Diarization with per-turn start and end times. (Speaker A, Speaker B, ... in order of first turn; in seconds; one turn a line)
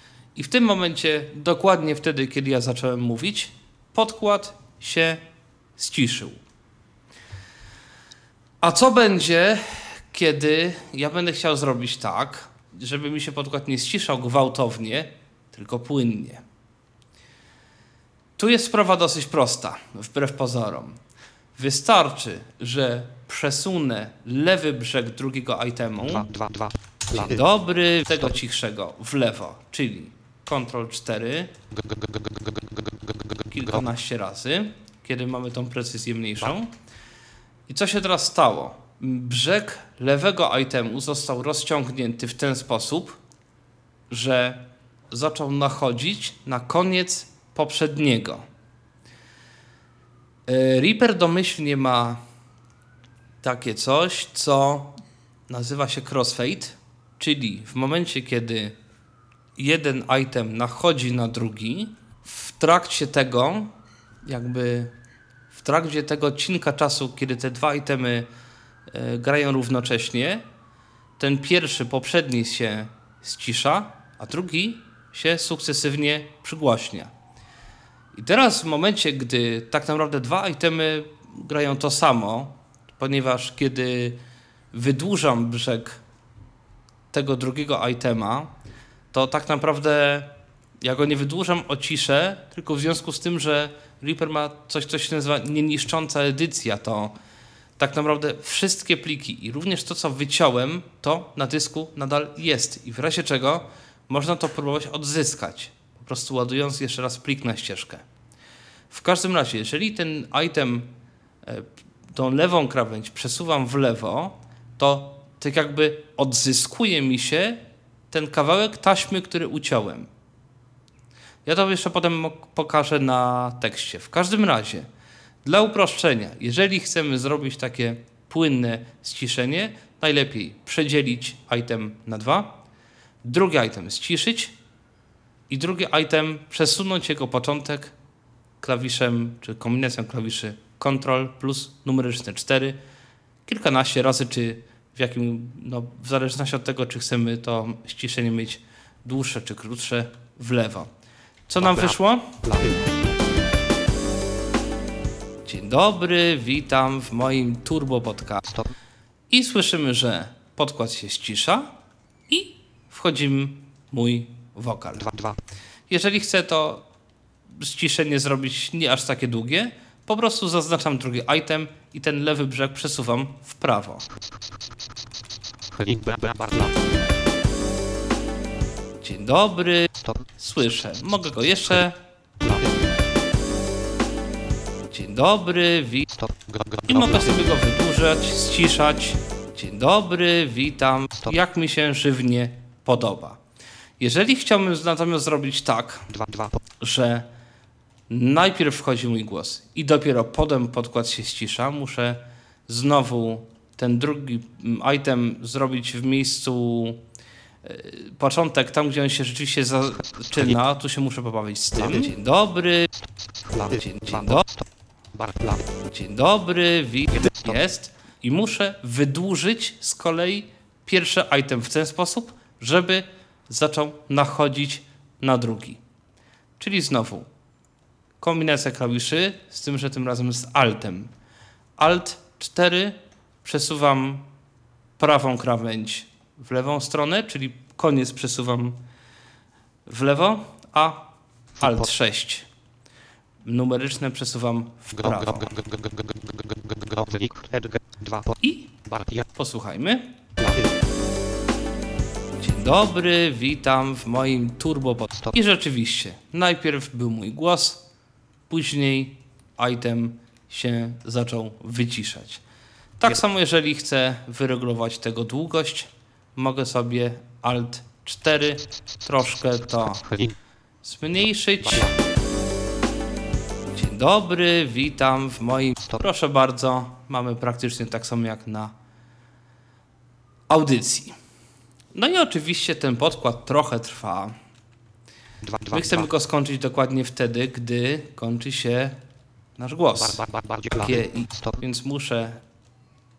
Speaker A: 0.3-5.2
Speaker A: 5.8-6.4
Speaker A: 8.6-16.4
Speaker A: 18.4-21.0
Speaker A: 21.5-26.3
Speaker B: 26.1-27.3
Speaker A: 27.1-31.5
Speaker B: 31.7-33.8
Speaker A: 33.5-36.7
Speaker A: 37.7-43.2
Speaker A: 44.1-48.4
Speaker A: 50.5-52.2
Speaker A: 53.4-58.8
Speaker A: 59.6-63.7
Speaker A: 64.2-64.9
Speaker A: 65.5-68.3
Speaker A: 68.9-70.4
Speaker A: 71.2-77.1
Speaker A: 78.1-84.2
Speaker A: 84.7-86.0
Speaker A: 87.1-88.5
Speaker A: 89.1-97.2
Speaker A: 97.8-108.0
Speaker A: 108.9-110.9
Speaker A: 111.4-120.1
Speaker A: 121.4-124.9
Speaker A: 125.4-132.6
Speaker A: 133.2-134.6
Speaker A: 135.5-137.9
Speaker A: 138.6-142.8
Speaker A: 143.4-150.9
Speaker A: 151.5-152.4
Speaker A: 155.4-158.4
Speaker A: 159.3-161.7
Speaker A: 162.3-165.1
Speaker B: 165.0-165.3
Speaker A: 165.9-166.8
Speaker A: 167.5-174.1
Speaker B: 175.7-176.7
Speaker A: 179.0-182.0
Speaker A: 184.9-186.1
Speaker B: 186.5-187.3
Speaker A: 186.9-193.4
Speaker A: 194.0-196.1
Speaker B: 196.1-196.6
Speaker A: 196.8-197.3
Speaker A: 198.1-207.0
Speaker A: 207.6-212.9
Speaker A: 213.6-214.4
Speaker B: 215.1-215.6
Speaker A: 215.9-225.8
Speaker A: 226.6-227.3
Speaker A: 228.2-231.1
Speaker A: 231.8-234.3
Speaker A: 235.0-238.8
Speaker A: 239.8-242.5
Speaker A: 243.4-245.6
Speaker B: 245.0-249.3
Speaker A: 249.3-250.2
Speaker A: 252.4-257.8
Speaker A: 258.5-262.4
Speaker A: 263.0-270.1
Speaker A: 270.8-271.9
Speaker A: 273.7-278.7
Speaker A: 280.5-281.2
Speaker A: 281.9-284.4
Speaker B: 285.4-286.0
Speaker A: 285.7-289.0
Speaker A: 289.6-292.4
Speaker B: 290.2-291.0